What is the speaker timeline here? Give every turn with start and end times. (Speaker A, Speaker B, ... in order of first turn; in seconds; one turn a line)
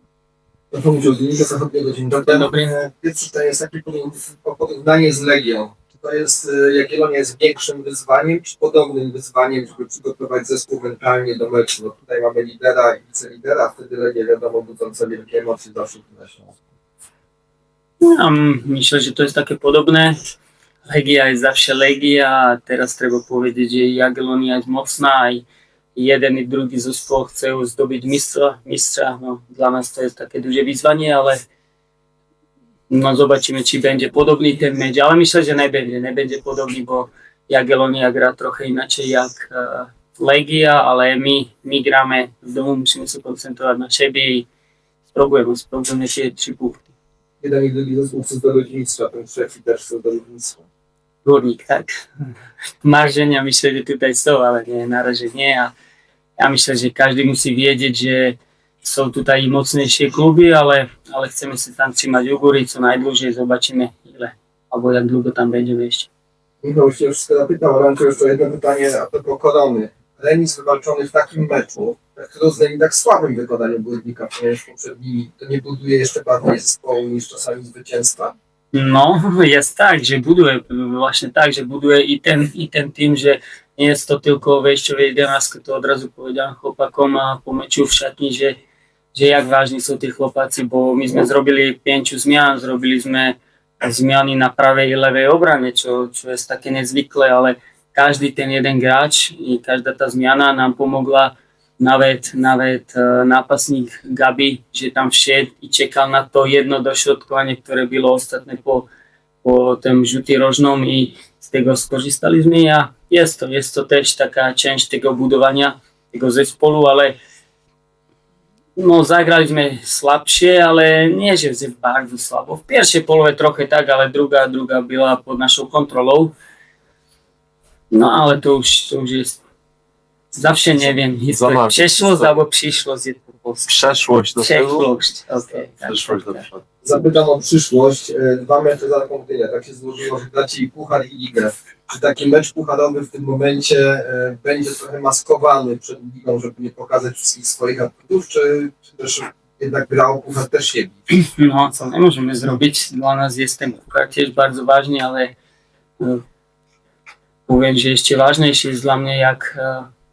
Speaker A: 0.7-16.6
Speaker B: 2.1-2.9
Speaker B: 18.0-20.2
Speaker B: 20.9-31.4
Speaker B: 32.9-44.5
Speaker B: 45.1-46.9
Speaker A: 47.4-50.6
Speaker B: 51.2-51.9
Speaker B: 52.8-55.7
Speaker B: 56.4-66.1
Speaker A: 66.6-78.3
Speaker B: 78.7-88.6
Speaker B: 89.1-108.9
Speaker B: 109.4-117.2
Speaker B: 118.8-126.3
Speaker B: 127.9-129.4
Speaker B: 130.4-133.7
Speaker C: 131.3-132.3
Speaker C: 133.7-134.9
Speaker B: 134.3-136.4
Speaker C: 135.8-136.6
Speaker A: 136.8-151.1
Speaker B: 151.1-155.3
Speaker B: 157.5-159.9